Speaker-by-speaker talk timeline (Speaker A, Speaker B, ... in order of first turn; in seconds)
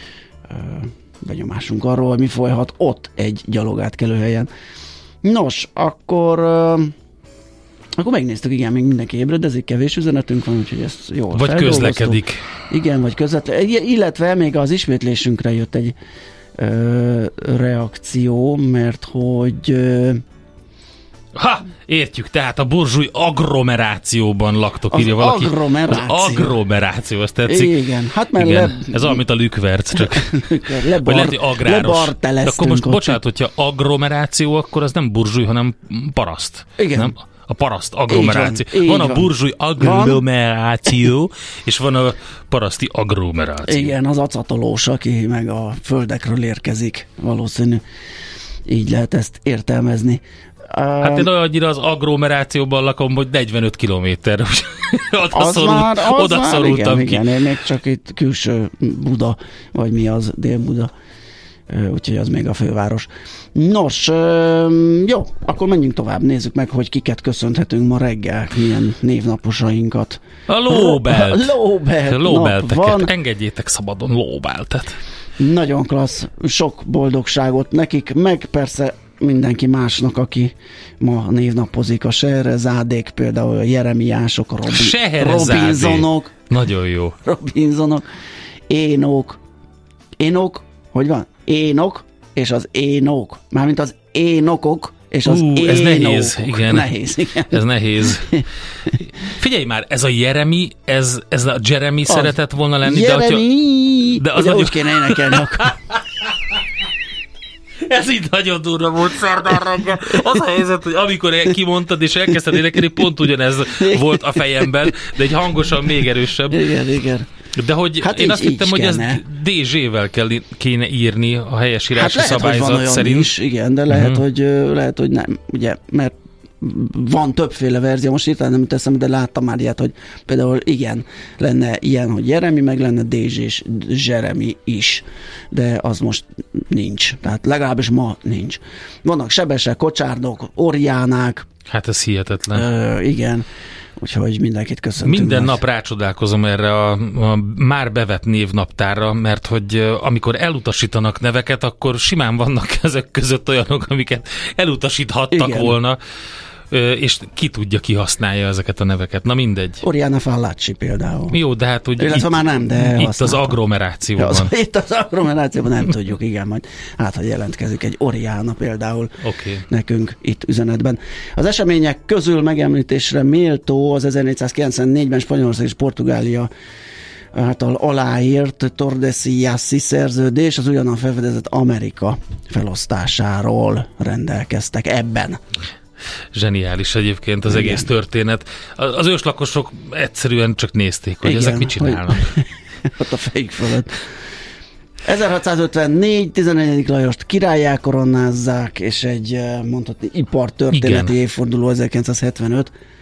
Speaker A: 0.5-4.5, 5.2-6.9, 8.0-15.9, 16.6-20.2, 24.9-26.6, 27.5-29.2, 29.9-33.2, 36.8-37.1, 38.1-40.2, 43.6-47.8, 48.7-51.3, 55.3-60.9, 61.7-73.1, 75.4-86.3, 87.2-88.0, 88.7-89.4, 90.2-97.6, 102.1-105.7, 113.8-114.9, 116.5-117.3, 118.0-119.2, 122.0-141.5, 142.5-143.5, 144.0-145.6, 155.3-155.7, 159.8-161.4, 162.0-163.6, 164.2-169.1, 169.7-176.5, 177.3-185.4, 187.5-187.9, 191.2-194.0, 195.0-202.7
Speaker B: 11.3-12.4, 21.4-27.8, 28.3-30.4, 31.0-43.9, 51.0-57.2, 70.5-71.5, 72.0-75.0, 84.7-87.2, 95.2-96.9, 97.5-98.4, 99.2-103.4, 104.2-106.0, 107.8-116.7, 117.6-123.3, 123.9-124.2, 141.7-142.7, 145.0-156.0, 156.7-159.8, 161.3-164.5, 169.2-169.7, 186.3-192.3, 200.7-201.1